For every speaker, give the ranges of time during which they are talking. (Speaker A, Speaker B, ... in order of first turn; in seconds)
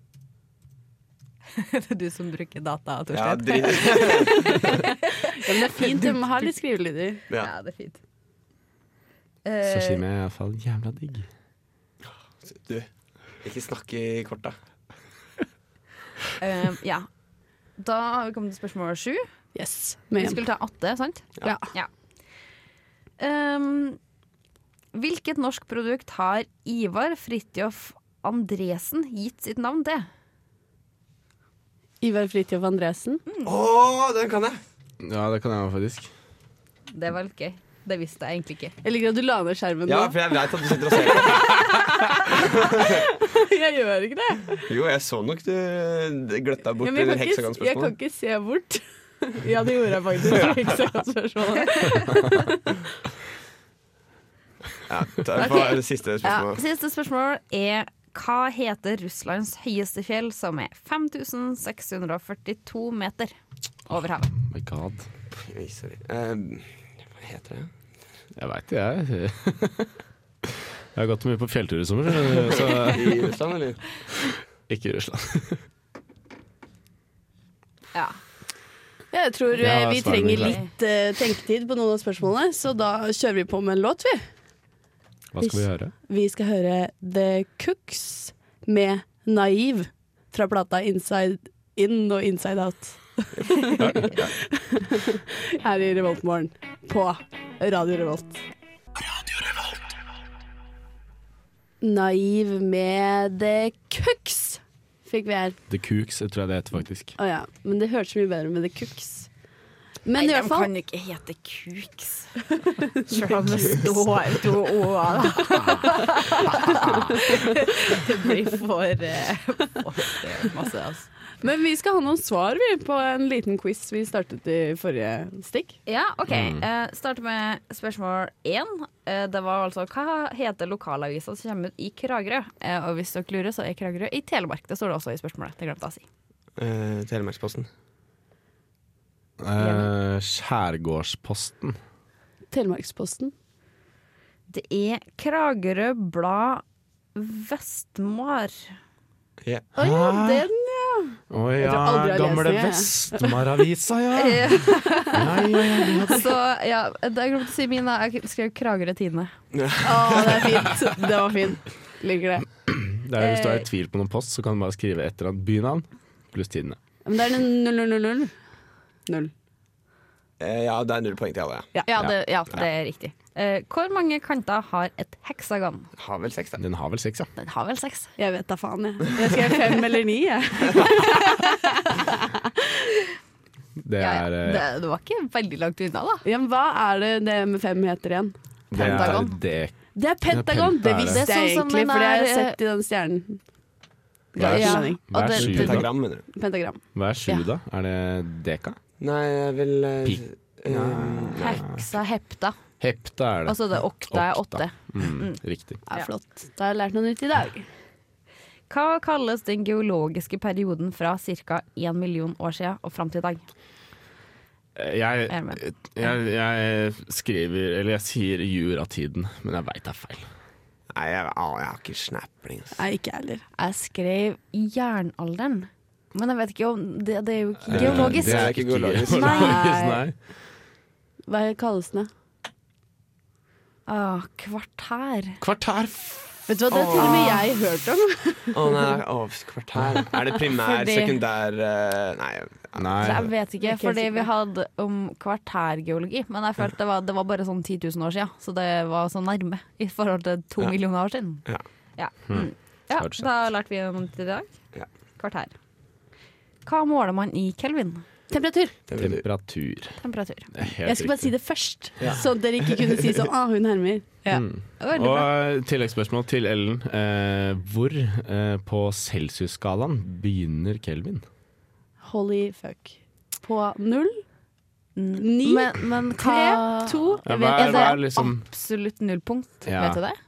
Speaker A: 1.5-6.4, 7.3-8.0, 9.4-10.0, 16.4-17.1, 17.8-19.3, 20.2-21.9, 23.2-24.0, 24.9-30.1, 36.9-38.7, 55.3-63.3, 63.9-64.3, 80.3-80.7, 110.2-121.1, 125.9-136.0, 139.6-139.9, 144.5-146.6, 147.1-148.8, 154.1-159.3, 163.2-163.6, 171.9-175.9, 177.4-178.1, 181.3-181.7, 184.0-186.2, 188.7-189.3, 191.1-192.5, 194.4-195.8, 201.3-202.6, 203.4-205.4, 208.7-213.4, 215.3-215.6, 223.6-228.5, 229.2-229.6, 233.9-235.4, 237.0-237.2, 240.7-241.1, 243.0-254.5, 255.2-255.5, 256.6-258.0, 260.0-260.5, 264.8-265.3, 274.9-280.2
Speaker B: 3.1-4.8, 12.4-12.9, 13.4-14.6, 33.4-34.6, 39.9-41.7, 42.3-43.0, 44.6-47.9, 54.9-56.6, 65.3-67.7, 72.7-73.9, 136.6-137.7, 149.4-149.7, 159.5-160.7, 170.4-171.7, 176.0-176.6, 195.3-196.2, 199.0-201.6, 220.9-222.8, 227.7-229.5, 236.7-237.4, 238.5-243.2, 258.9-259.2, 262.0-263.1
Speaker C: 4.7-7.2, 19.5-20.4, 21.4-21.7, 32.0-33.2, 38.8-40.3, 42.2-44.6, 46.8-52.8, 79.1-84.2, 85.4-98.4, 101.8-105.6, 107.2-109.3, 110.0-110.7, 112.8-113.9, 115.5-116.0, 121.4-125.8, 142.5-143.3, 149.8-153.4, 159.8-162.4, 167.1-168.3, 169.1-169.3, 178.2-182.5, 186.2-188.3, 189.9-193.4, 194.3-196.8, 205.9-207.7, 222.7-223.4, 229.1-230.0, 231.3-232.1, 236.5-238.8, 243.6-244.3, 258.3-258.7, 260.8-264.4, 272.0-274.2, 275.1-278.0
Speaker D: 9.6-11.3, 35.0-36.1, 64.4-65.1, 68.3-69.9, 70.4-73.3, 74.7-75.6, 79.6-80.6, 85.3-85.9, 93.8-94.3, 105.7-107.2, 115.7-117.4, 126.3-126.6, 139.4-141.8, 149.8-150.4, 151.3-156.3, 162.7-166.8, 176.6-177.3, 183.8-184.7, 188.7-189.7, 190.3-191.2, 194.3-195.9, 196.9-198.8, 200.0-201.8, 202.8-205.8, 214.7-220.3, 227.7-230.1, 235.4-236.5, 242.7-243.3, 252.3-253.3, 259.0-260.0, 260.5-261.3, 264.3-271.2, 277.2-278.4, 279.6-280.0